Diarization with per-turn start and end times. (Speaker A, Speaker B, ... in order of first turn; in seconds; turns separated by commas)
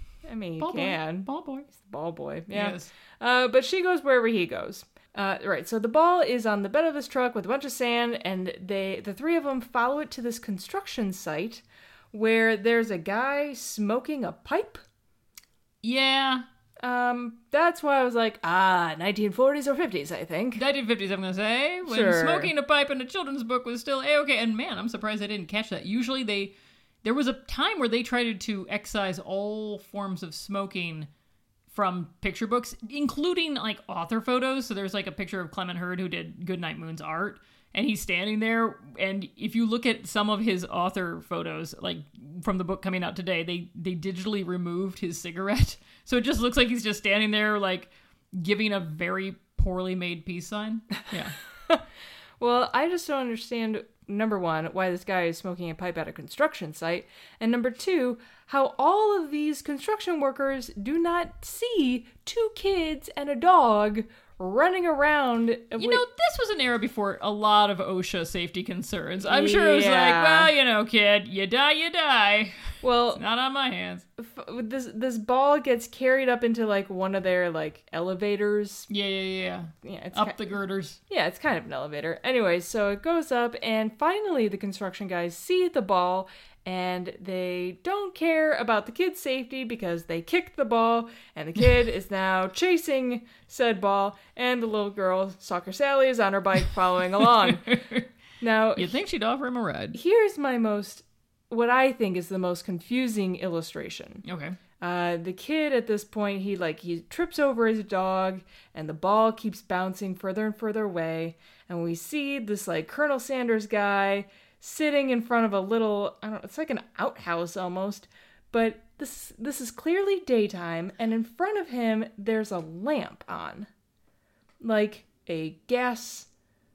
Speaker A: 0.2-14.8, Speaker B: 0.6-1.7, Speaker B: 2.5-2.9, Speaker B: 15.8-16.4, Speaker A: 16.8-20.6, Speaker B: 20.6-26.5, Speaker A: 21.9-22.5, Speaker B: 27.0-31.1, Speaker B: 31.7-51.4, Speaker A: 52.4-66.0, Speaker B: 65.8-74.0, Speaker A: 69.2-70.5, Speaker A: 72.8-73.2, Speaker A: 74.2-78.9, Speaker B: 78.9-81.0, Speaker A: 79.8-80.4, Speaker A: 81.1-97.7, Speaker B: 97.4-98.1, Speaker A: 98.4-99.0, Speaker B: 98.8-100.0, Speaker A: 99.9-104.2, Speaker B: 104.2-104.6, Speaker A: 104.8-123.7, Speaker A: 124.6-126.3